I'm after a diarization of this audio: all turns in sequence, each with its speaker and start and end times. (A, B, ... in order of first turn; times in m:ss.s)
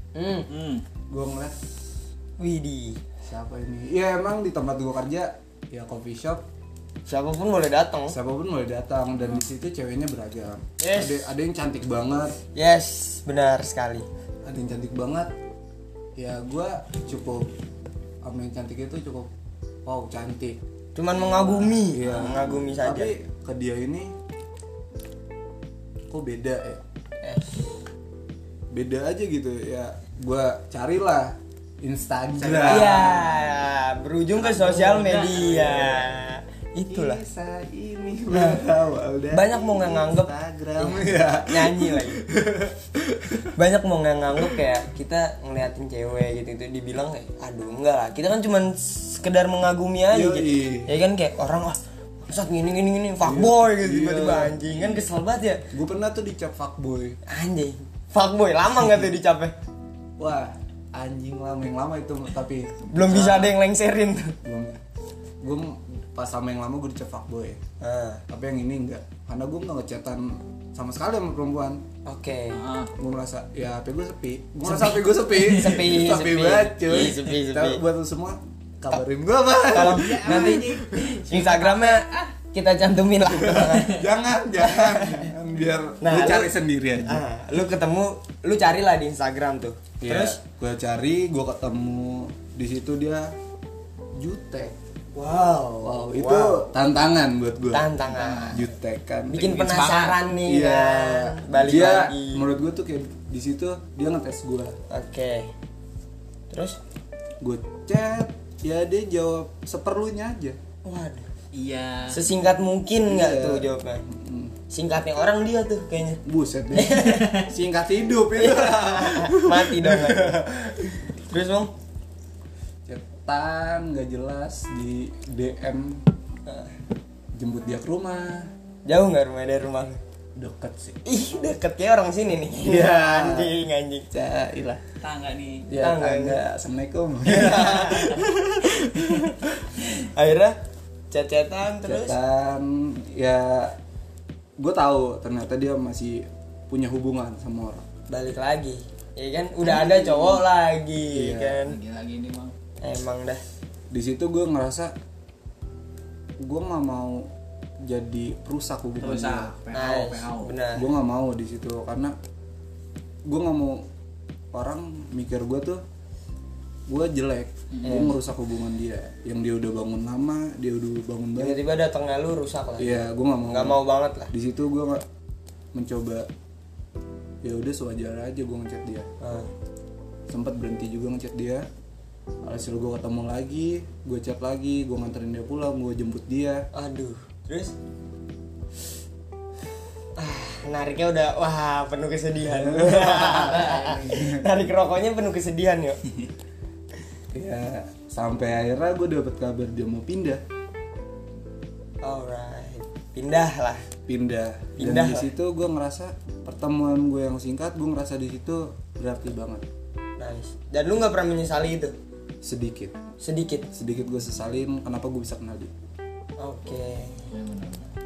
0:00.1-0:00.5 A
0:00.5-0:00.8 B
0:01.1-0:01.6 C
0:02.4-0:03.0 A
0:03.2-0:06.4 C
0:07.0-0:08.2 A
0:08.1-0:12.4 C
0:10.8-0:11.3 A
0:12.5-0:14.0 A
0:14.4-0:15.3 C
0:16.2-0:17.5 C
0:18.2-0:19.3 C
0:19.8-0:20.6 C
0:20.9-0:23.1 A
0:21.2-0:22.6 B
0:21.9-0:24.1 C
0:26.1-0:26.8 C
0:27.2-0:27.6 A
0:28.7-0:33.3 C
0:32.4-0:37.2 A
0:32.6-0:33.2 B
0:34.3-0:35.9 B
0:36.9-0:43.5 C
0:38.3-0:38.6 A
0:39.3-0:42.2 A
0:43.6-0:55.7 A
0:50.1-0:50.9 C
0:53.2-0:54.6 C
0:55.7-0:57.2 C
0:57.2-0:59.5 A
1:00.2-1:02.9 C
1:02.9-1:04.4 A
1:03.1-1:03.5 B
1:04.4-1:04.8 C
1:05.4-1:07.6 C
1:07.8-1:08.2 A
1:08.3-1:11.8 C
1:12.0-1:12.6 A
1:12.5-1:12.9 B
1:13.0-1:21.2 C
1:14.6-1:15.8 B
1:15.5-1:17.8 A
1:19.7-1:24.0 A
1:19.8-1:22.3 B
1:23.3-1:27.2 C
1:24.6-1:25.3 A
1:26.0-1:26.5 A
1:27.0-1:30.4 A
1:30.0-1:33.3 C
1:34.2-1:34.7 C
1:35.1-1:36.7 A
1:35.8-1:37.9 C
1:37.7-1:38.6 A
1:38.1-1:38.6 B
1:38.5-1:39.6 C
1:39.3-1:42.4 A
1:39.4-1:40.2 B
1:40.4-1:44.8 C
1:44.9-1:45.5 A
1:46.5-1:46.8 A
1:47.4-1:50.6 C
1:50.8-1:51.3 A
1:51.5-1:52.2 B
1:52.1-1:54.0 A
1:53.0-1:54.6 C
1:54.7-1:56.2 A
1:56.2-2:01.0 C
1:56.7-1:57.4 A
1:56.9-1:57.4 B
1:58.4-2:01.7 A
2:02.8-2:06.0 C
2:06.4-2:06.7 A
2:07.3-2:08.5 C
2:08.8-2:10.0 A
2:10.4-2:11.0 C
2:11.0-2:14.1 A
2:12.6-2:13.5 C
2:14.1-2:14.8 C
2:15.0-2:15.7 B
2:15.7-2:19.6 C
2:15.7-2:16.4 A
2:17.2-2:18.2 A
2:18.8-2:20.6 A
2:21.1-2:22.2 A
2:21.8-2:23.8 C
2:24.6-2:27.8 C
2:28.1-2:31.8 A
2:29.8-2:30.3 B
2:31.1-2:31.6 C
2:31.6-2:32.5 B
2:32.8-2:33.4 A
2:33.9-2:34.9 C
2:36.4-2:37.3 C
2:37.8-2:39.5 C
2:39.0-2:40.5 B
2:39.7-2:40.8 A
2:40.7-2:42.1 C
2:43.2-2:43.8 C
2:44.5-2:45.8 C
2:46.9-2:51.6 C
2:47.7-2:48.2 B
2:47.8-2:48.2 A
2:51.4-2:54.3 A
2:52.8-2:53.8 C
2:54.3-2:55.0 C
2:55.7-2:56.3 C
2:57.4-2:59.1 C
2:59.2-2:59.5 A
3:00.3-3:01.6 C
3:02.4-3:06.7 C
3:06.7-3:07.7 A
3:10.2-3:16.0 A
3:12.5-3:14.5 C
3:13.3-3:14.1 B
3:17.3-3:20.4 C
3:22.0-3:23.8 A
3:24.1-3:29.6 C
3:24.8-3:25.3 A
3:30.2-3:31.9 A
3:32.4-3:33.0 C
3:33.2-3:33.7 A
3:33.7-3:35.7 C
3:36.4-3:37.3 A
3:37.3-3:37.9 B